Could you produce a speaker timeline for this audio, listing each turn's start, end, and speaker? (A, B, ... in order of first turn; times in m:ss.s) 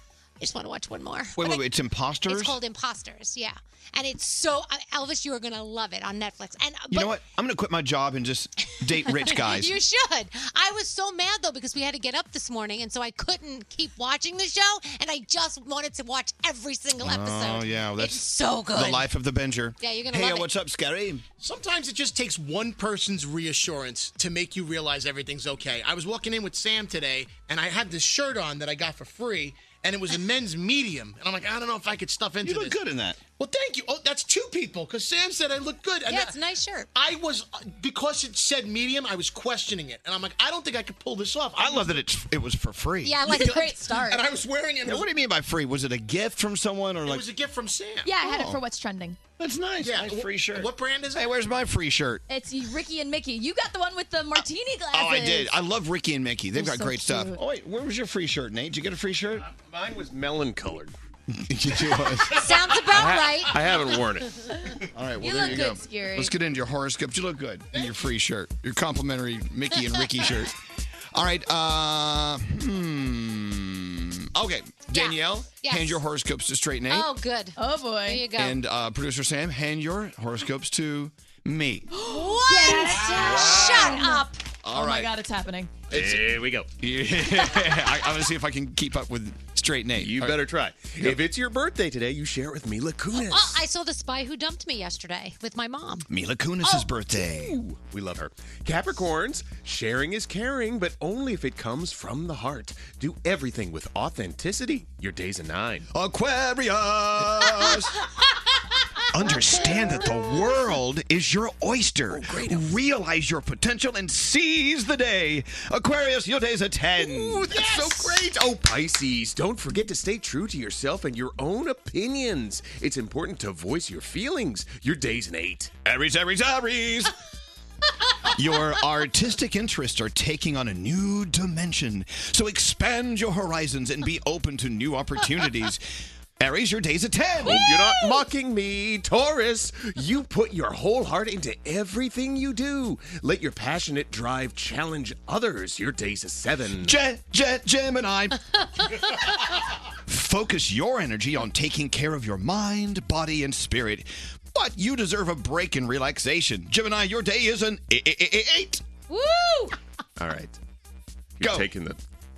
0:00.4-0:01.6 A
0:01.4-0:02.6 B
0:02.3-0:07.2 A
0:06.9-0:09.7 B
0:09.0-0:19.1 A
0:17.0-0:21.2 B
0:19.8-0:20.5 A
0:21.4-0:32.8 C
0:32.4-0:33.2 B
0:33.4-0:36.3 C
0:36.0-0:36.9 A
0:36.9-0:42.0 C
0:41.6-0:43.2 B
0:43.0-0:43.9 A
0:43.2-0:44.2 D
0:43.3-0:45.1 C
0:44.8-0:47.3 B
0:47.0-0:48.1 C
0:48.0-0:49.2 D
0:48.2-0:48.6 B
0:49.4-0:52.2 B
0:49.8-0:51.4 C
0:52.3-0:55.5 D
0:54.9-0:59.5 B
0:56.6-0:57.4 D
0:59.5-1:00.9 E
1:01.3-1:02.6 B
1:02.3-1:04.0 A
1:02.9-1:04.4 E
1:04.6-1:06.3 D
1:04.9-1:10.5 B
1:11.1-1:17.1 B
1:14.9-1:16.0 A
1:16.9-1:18.6 A
1:17.6-1:18.2 D
1:18.3-1:21.9 B
1:21.9-1:25.7 D
1:22.0-1:24.3 A
1:24.6-1:25.1 B
1:25.9-1:26.7 E
1:26.8-1:30.4 B
1:30.0-1:33.6 E
1:33.1-1:36.0 A
1:36.1-1:37.6 B
1:37.2-1:45.9 E
1:45.9-1:48.0 B
1:49.1-1:57.6 B
1:52.1-1:52.7 E
1:57.0-2:05.7 E
2:05.8-2:07.1 B
2:08.3-2:15.8 B
2:16.4-2:17.6 B
2:17.4-2:27.0 E
2:26.8-2:28.4 B
2:30.0-2:38.8 B
2:39.1-2:39.7 A
2:40.2-2:40.5 E
2:41.4-2:42.0 E
2:41.4-2:41.7 B